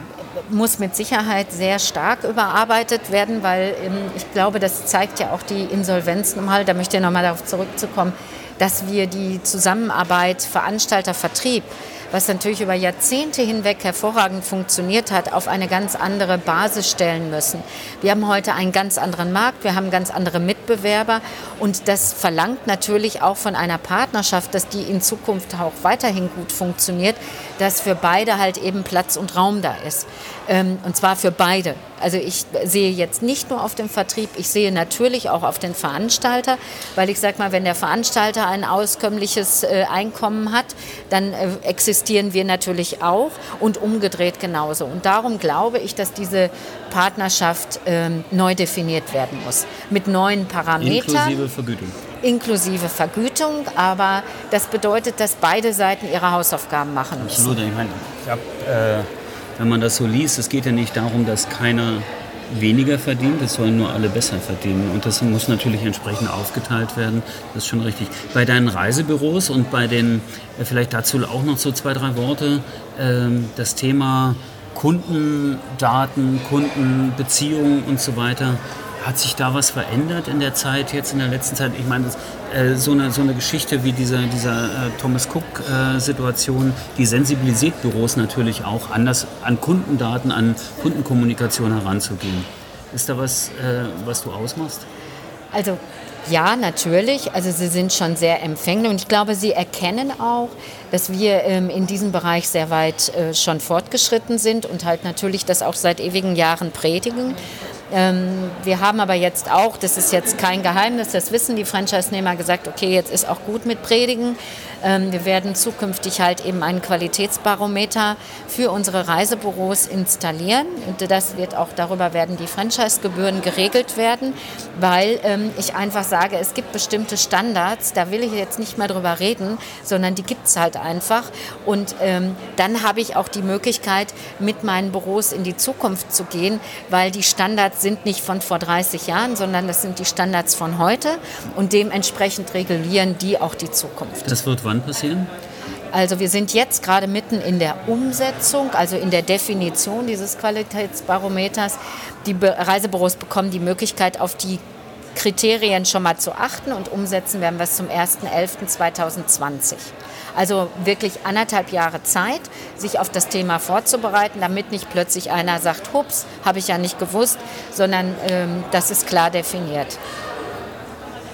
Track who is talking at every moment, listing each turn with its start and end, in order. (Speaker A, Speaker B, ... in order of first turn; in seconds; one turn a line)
Speaker A: 0.3-51.5
Speaker B: 50.8-52.0
Speaker A: 52.2-57.6
Speaker B: 57.2-94.8
Speaker A: 95.5-107.4
Speaker A: 107.9-144.3
Speaker B: 144.2-145.3
Speaker A: 145.9-154.6
Speaker A: 155.1-170.0